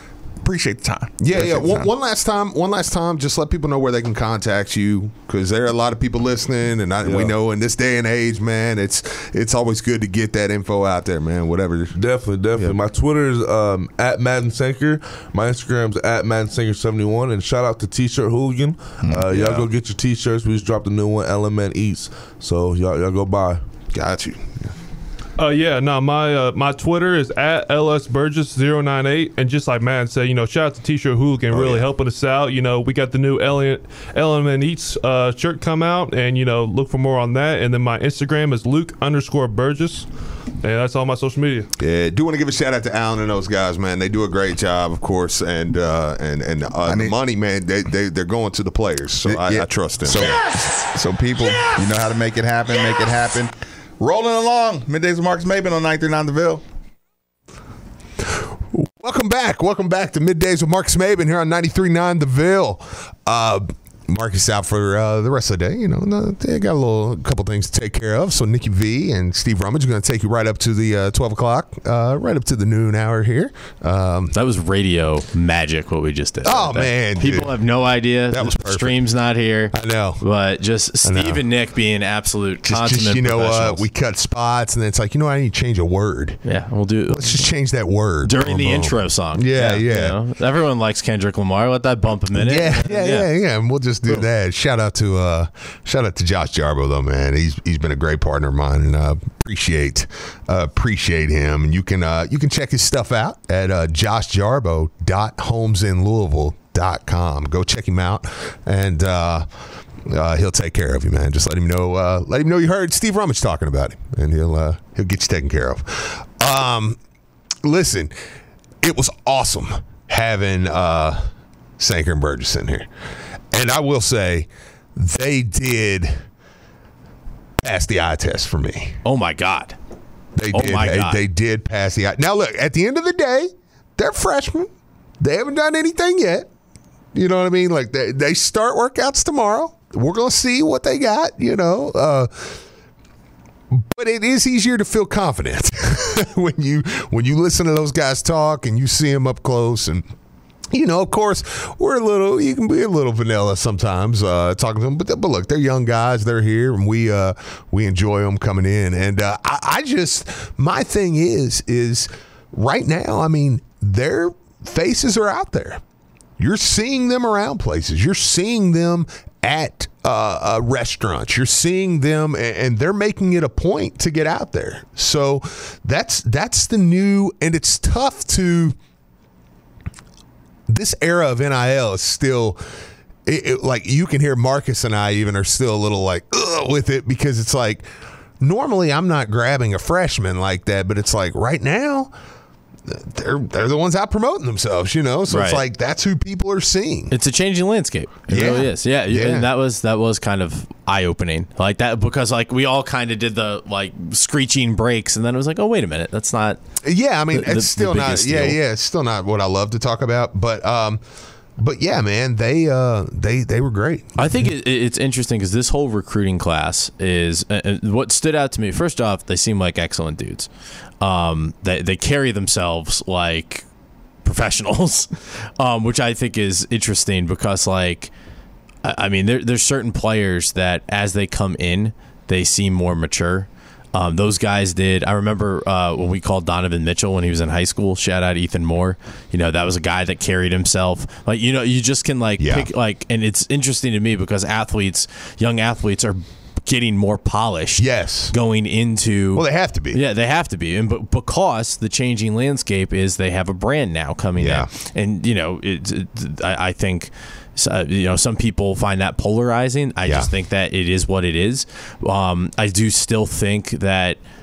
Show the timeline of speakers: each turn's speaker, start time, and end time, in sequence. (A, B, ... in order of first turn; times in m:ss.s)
0:00.4-0:01.9 A
0:01.2-0:12.0 B
0:07.0-0:07.3 C
0:11.9-0:23.6 C
0:19.0-0:19.6 A
0:19.3-0:19.6 B
0:23.9-0:24.7 B
0:25.4-0:40.1 D
0:31.5-0:31.9 B
0:40.6-0:41.7 D
0:41.8-0:50.4 B
0:46.9-0:47.2 A
0:49.3-0:56.6 A
0:58.3-1:14.3 B
1:14.3-1:23.9 E
1:16.4-1:17.5 B
1:18.3-1:19.0 B
1:19.7-1:20.2 B
1:21.0-1:21.4 B
1:22.6-1:26.4 B
1:26.4-1:27.5 E
1:27.1-1:30.2 B
1:28.2-1:33.3 E
1:32.3-1:49.5 B
1:50.0-1:57.0 B
1:57.6-1:58.1 B
1:58.8-2:01.3 B
2:01.8-2:02.9 B
2:03.5-2:06.2 B
2:07.6-2:09.0 B
2:09.0-2:09.8 E
2:10.4-2:16.5 B
2:10.5-2:11.2 E
2:17.1-2:22.6 B
2:23.7-2:30.1 B
2:30.7-2:45.8 B
2:46.4-2:58.8 B
3:00.7-3:02.6 B
3:03.2-3:07.9 B
3:08.4-3:12.1 B
3:12.9-3:17.1 B
3:15.3-3:15.6 E
3:17.1-3:26.6 E
3:18.3-3:19.5 B
3:26.8-3:31.0 B
3:27.3-3:28.6 E
3:31.6-3:34.4 B
3:34.2-3:40.5 E
3:41.0-3:43.7 E
3:44.2-3:48.1 E
3:48.8-4:24.2 E
4:02.4-4:02.7 B
4:07.8-4:08.3 B
4:09.3-4:10.0 B
4:14.4-4:14.7 B